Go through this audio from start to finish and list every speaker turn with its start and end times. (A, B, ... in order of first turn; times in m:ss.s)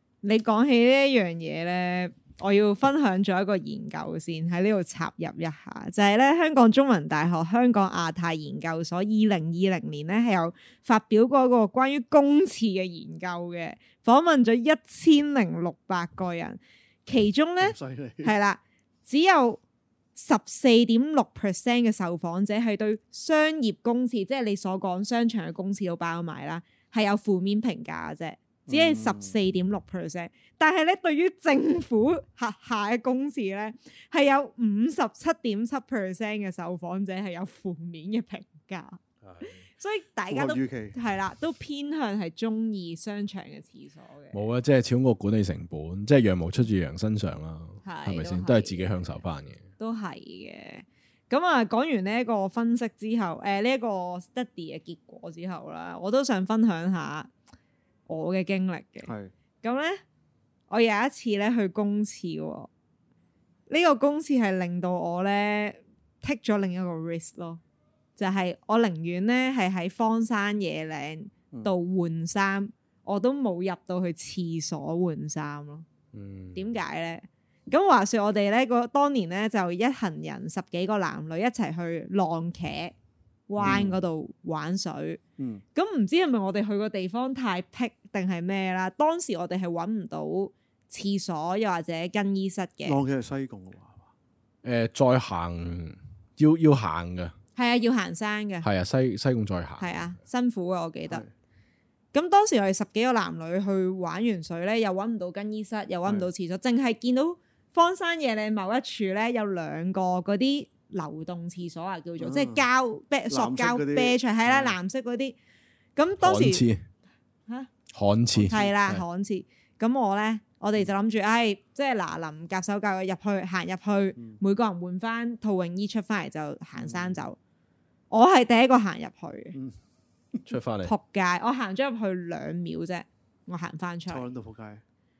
0:00.2-0:19.6 A
0:17.6-0:18.3 B
0:20.2-0:44.4 A
0:28.7-0:29.3 B
0:39.2-0:39.6 C
0:40.3-0:40.9 B
0:44.3-0:49.7 C
0:47.8-0:48.9 A
0:49.8-0:57.3 A
0:58.1-0:59.1 A
0:59.0-0:59.3 B
0:59.6-1:00.0 A
1:00.7-1:02.7 A
1:03.7-1:07.6 A
1:08.2-1:15.8 A
1:16.1-1:16.6 C
1:16.5-1:22.9 A
1:23.5-1:25.2 A
1:23.6-1:24.0 C
1:23.6-1:23.9 B
1:25.4-1:25.6 B
1:25.7-1:33.0 A
1:32.8-1:34.1 B
1:34.6-1:37.3 C
1:37.6-1:38.7 A
1:38.6-1:40.2 C
1:39.8-1:41.2 A
1:42.1-1:55.4 A
1:52.2-1:52.6 B
1:53.3-1:54.8 B
1:56.0-1:56.6 A
1:56.2-1:56.8 C
1:57.9-1:59.0 C
1:58.3-1:58.7 B
1:58.4-2:07.4 A
2:06.8-2:07.2 B
2:08.1-2:09.6 A
2:10.5-2:10.9 C
2:10.8-2:14.3 A
2:14.1-2:14.8 B